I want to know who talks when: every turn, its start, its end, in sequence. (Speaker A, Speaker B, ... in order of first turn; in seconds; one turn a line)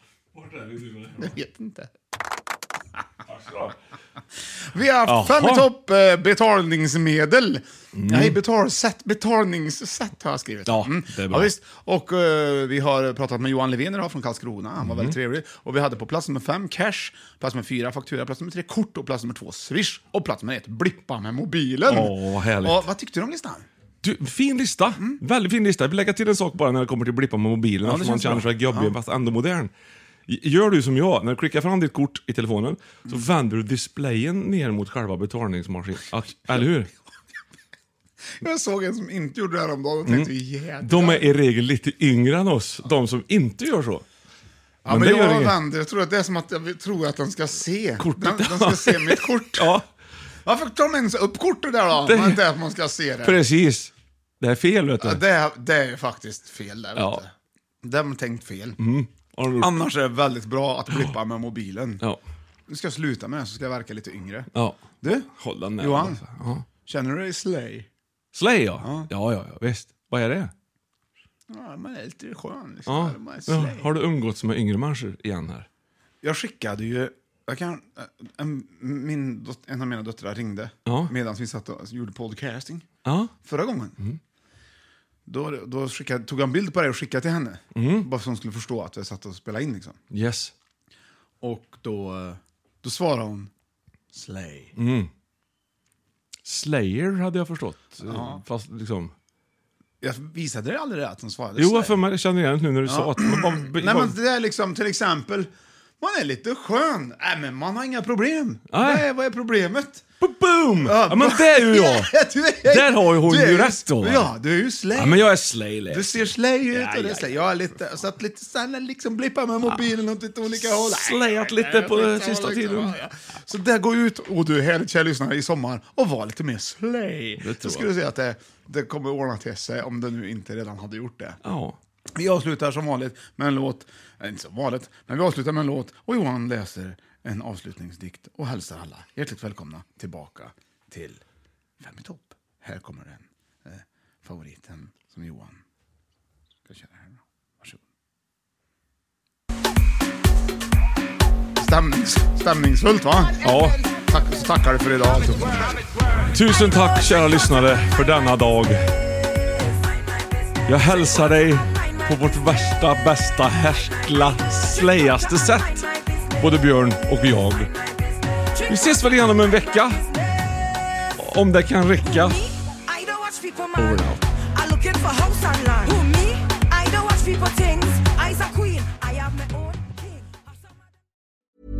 Speaker A: 0.3-1.3
Speaker B: 1.2-1.9
Speaker A: 3.3-3.7
Speaker B: 4.7-23.6
Speaker A: 5.0-5.7
Speaker A: 7.9-8.4
Speaker A: 10.7-11.5
Speaker A: 14.8-15.1
Speaker A: 21.9-22.8
Speaker A: 24.0-29.7
Speaker B: 27.8-28.9
Speaker A: 30.3-36.9
Speaker B: 38.4-41.2
Speaker A: 40.8-44.0
Speaker B: 44.8-49.7
Speaker A: 44.9-45.5
Speaker A: 48.0-49.9
Speaker B: 50.4-53.4
Speaker A: 52.0-52.4
Speaker A: 53.2-55.2
Speaker B: 55.0-57.3
Speaker A: 57.0-57.2
Speaker B: 57.8-58.8
Speaker A: 58.8-59.8
Speaker B: 59.6-62.0
Speaker B: 62.7-64.5
Speaker A: 64.5-66.7
Speaker B: 65.0-66.2
Speaker B: 66.8-67.9
Speaker A: 68.3-70.5
Speaker B: 68.8-69.1
Speaker B: 71.5-73.9
Speaker A: 72.9-75.7
Speaker B: 76.2-82.9
Speaker A: 80.8-81.1
Speaker A: 83.0-83.3
Speaker B: 83.4-84.0
Speaker B: 85.2-90.0
Speaker A: 87.7-88.1
Speaker A: 90.1-90.5
Speaker B: 91.4-93.5
Speaker B: 94.1-94.7
Speaker A: 94.8-95.1
Speaker A: 96.4-99.1
Speaker B: 98.0-98.4
Speaker B: 100.0-102.0
Speaker A: 101.6-104.1
Speaker B: 102.8-110.0
Speaker A: 108.7-109.0
Speaker A: 110.2-112.1
Speaker B: 110.8-115.3
Speaker A: 112.6-114.3
Speaker A: 114.9-117.0
Speaker B: 115.9-131.4
Speaker A: 120.6-122.9
Speaker A: 127.4-127.9
Speaker A: 131.4-131.8
Speaker B: 132.1-141.2
Speaker B: 141.8-145.6
Speaker B: 146.7-147.8
Speaker B: 151.6-155.8
Speaker A: 153.4-153.8
Speaker A: 156.3-158.8
Speaker A: 160.7-165.9
Speaker A: 166.4-167.7
Speaker C: 168.5-169.9
Speaker A: 168.7-170.0
Speaker A: 171.2-172.4
Speaker C: 172.0-180.3
Speaker A: 173.7-174.2